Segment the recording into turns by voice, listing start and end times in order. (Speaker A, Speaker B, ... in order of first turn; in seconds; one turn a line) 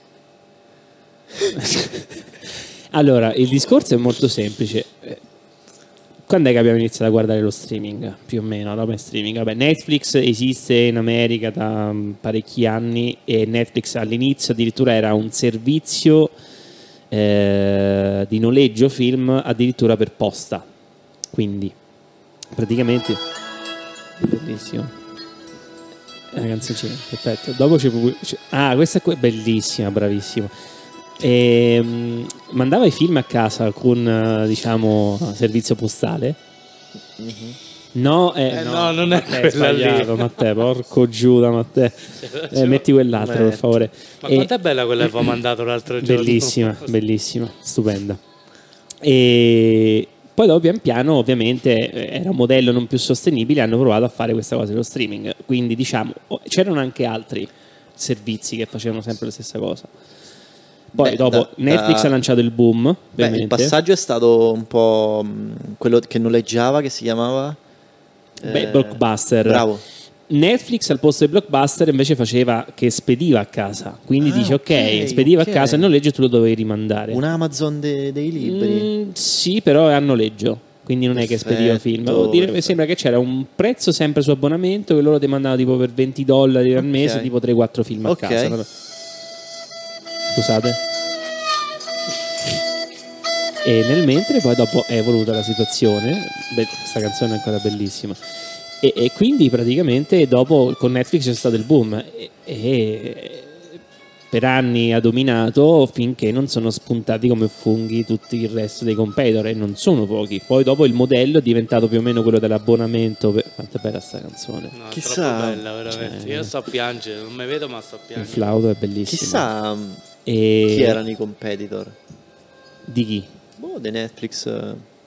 Speaker A: 1.5-2.2
Speaker A: 2.9-5.2
Speaker A: 6.3-16.3
Speaker A: 17.1-20.6
Speaker A: 21.3-21.7
Speaker A: 22.5-23.2
Speaker A: 24.2-24.9
Speaker A: 26.3-30.5
Speaker A: 31.2-36.4
Speaker B: 37.2-37.6
Speaker A: 37.9-44.5
Speaker C: 38.5-40.4
Speaker C: 42.2-42.9
Speaker B: 43.1-43.7
Speaker C: 44.2-46.9
Speaker A: 46.0-48.2
Speaker A: 49.0-59.9
Speaker A: 60.9-63.7
Speaker B: 61.0-62.1
Speaker B: 63.2-67.6
Speaker B: 68.4-69.8
Speaker A: 68.4-69.7
Speaker A: 70.3-77.2
Speaker B: 74.2-75.9
Speaker B: 77.1-78.9
Speaker A: 78.4-88.7
Speaker B: 81.1-82.8
Speaker B: 86.8-87.3
Speaker B: 88.0-88.6
Speaker A: 90.3-90.8
Speaker A: 93.6-98.2
Speaker A: 98.8-103.8
Speaker A: 104.3-114.7
Speaker C: 114.7-118.6
Speaker B: 114.9-115.6
Speaker A: 115.9-116.5
Speaker A: 118.2-119.5
Speaker B: 119.0-120.0
Speaker A: 120.2-121.0
Speaker B: 120.6-121.9
Speaker A: 122.9-123.3
Speaker B: 123.6-124.8